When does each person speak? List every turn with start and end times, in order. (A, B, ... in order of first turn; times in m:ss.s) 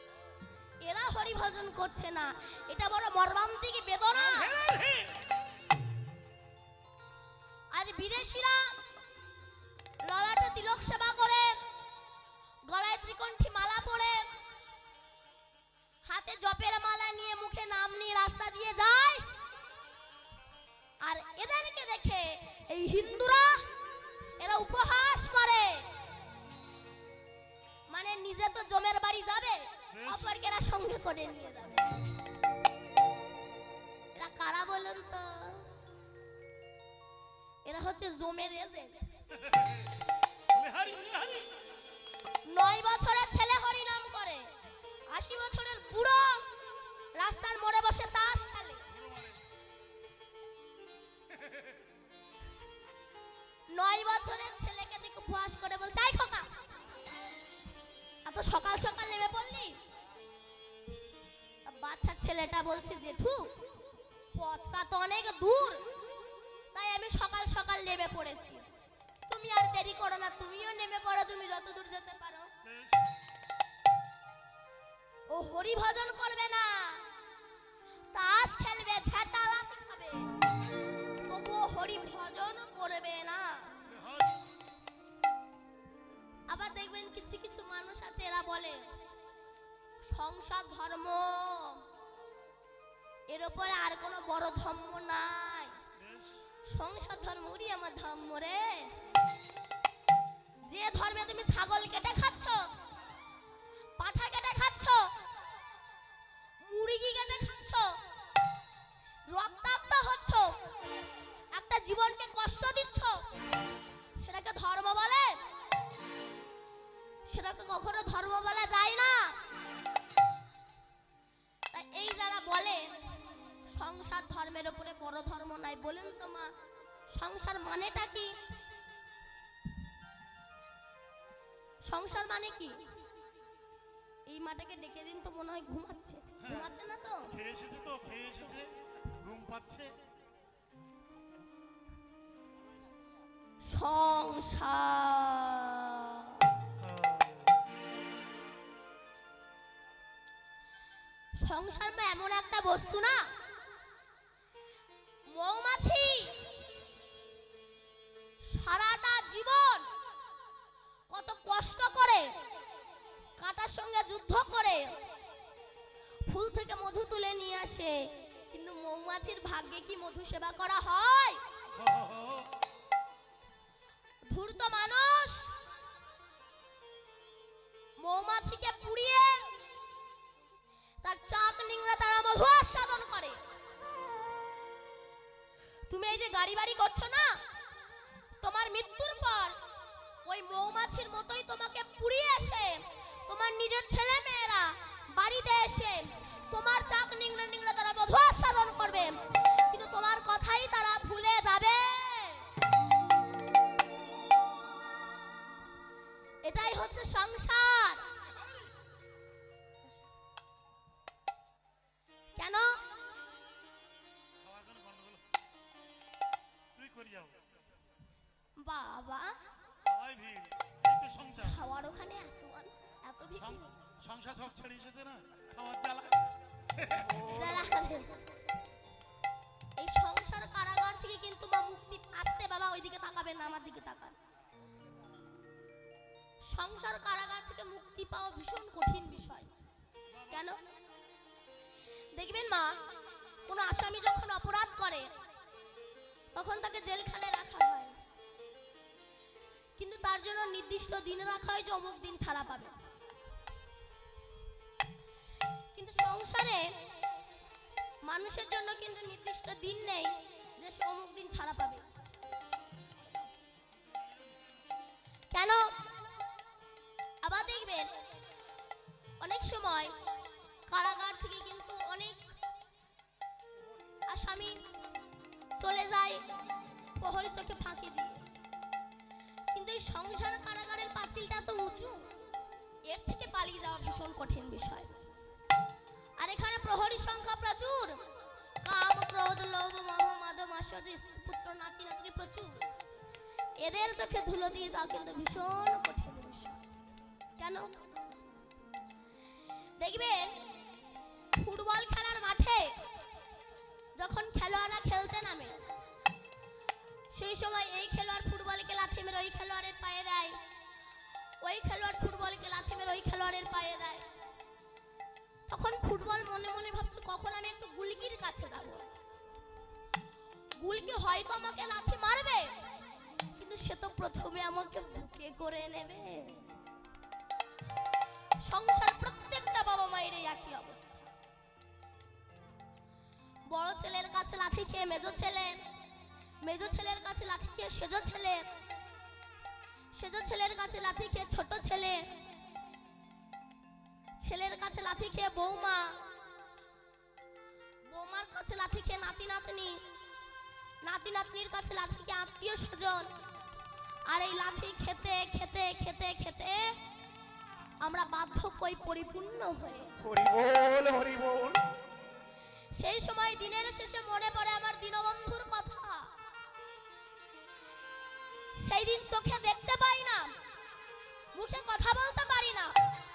0:00.8-0:04.5 A
0:04.1-0:05.1 B
0:07.7-0:08.7 A
0:10.1-0:11.6 A
0:12.7-0:14.2 A
0:16.0-0:19.2 A
0:21.0-0:23.6 A
0:24.4-0:25.8 A
0:27.9-0:31.9 A
0:29.9-0:30.3 B
0:34.1-0:35.7 A
0:37.6-0:38.9 A
0:39.3-0:39.9 B
0:40.5-0:41.5 B
0:42.5-0:44.5 A
0:45.1-0:46.4 A
0:47.1-0:48.8 A
0:48.9-0:49.4 B
0:53.7-0:56.5 A
0:58.2-0:59.8 A
1:01.6-1:03.5 A
1:04.3-1:05.8 A
1:06.7-1:08.6 A
1:09.3-1:12.5 A
1:12.6-1:13.0 B
1:15.3-1:17.0 A
1:18.1-1:20.3 A
1:21.2-1:23.7 A
1:23.9-1:24.4 B
1:26.5-1:28.9 A
1:30.0-1:31.8 A
1:33.3-1:35.8 A
1:36.0-1:36.4 B
1:36.7-1:38.9 A
1:40.6-1:42.7 A
1:44.0-1:45.1 A
1:46.6-1:48.0 A
1:49.3-1:50.6 A
1:51.5-1:53.2 A
1:54.2-1:55.4 A
1:57.3-1:59.4 A
2:01.7-2:02.9 A
2:03.7-2:06.5 A
2:07.1-2:08.3 A
2:11.8-2:12.8 A
2:14.3-2:17.3 A
2:16.4-2:16.7 B
2:17.3-2:19.9 B
2:23.6-2:26.4 A
2:26.8-2:27.6 B
2:31.4-2:33.3 A
2:35.3-2:36.4 A
2:38.4-2:39.9 A
2:41.1-2:42.3 A
2:43.4-2:44.9 A
2:46.3-2:48.0 A
2:48.5-2:51.4 A
2:51.7-2:52.5 B
2:54.3-2:55.6 A
2:58.0-2:59.5 A
3:01.0-3:03.4 A
3:05.9-3:07.4 A
3:08.4-3:09.6 A
3:10.2-3:22.4 A
3:26.4-3:28.0 A
3:32.4-3:32.8 A
3:34.4-3:35.2 B
3:36.8-3:37.3 B
3:38.6-3:39.4 A
3:39.8-3:41.6 B
3:41.4-3:43.7 A
3:43.4-3:46.2 B
3:46.7-3:47.1 B
3:46.9-3:47.9 C
3:47.3-3:48.1 A
3:49.8-3:54.2 A
3:56.5-3:59.5 A
4:00.1-4:00.4 B
4:00.3-4:00.6 A
4:02.1-4:02.8 A
4:03.5-4:05.1 A
4:06.3-4:08.0 A
4:09.8-4:12.7 A
4:15.7-4:16.7 A
4:18.0-4:21.8 A
4:25.3-4:25.7 A
4:27.2-4:27.9 A
4:29.2-4:29.9 A
4:30.7-4:32.2 A
4:34.1-4:34.6 A
4:35.6-4:36.2 A
4:37.0-4:38.2 A
4:39.5-4:42.1 A
4:42.9-4:44.9 A
4:46.2-4:48.0 A
4:48.6-4:52.7 A
4:53.6-4:56.6 A
4:57.4-4:57.8 A
4:59.8-5:00.4 A
5:01.3-5:02.7 A
5:04.0-5:05.6 A
5:07.1-5:10.4 A
5:11.4-5:14.0 A
5:15.5-5:18.9 A
5:20.6-5:22.5 A
5:23.4-5:26.4 A
5:28.4-5:31.1 A
5:33.5-5:35.6 A
5:36.4-5:38.4 A
5:39.9-5:42.0 A
5:44.2-5:46.0 A
5:47.9-5:49.8 A
5:50.8-5:53.1 A
5:54.1-5:56.8 A
5:57.8-5:59.9 A
6:00.0-6:01.7 C
6:02.8-6:06.1 A
6:08.6-6:10.3 A
6:11.3-6:12.7 A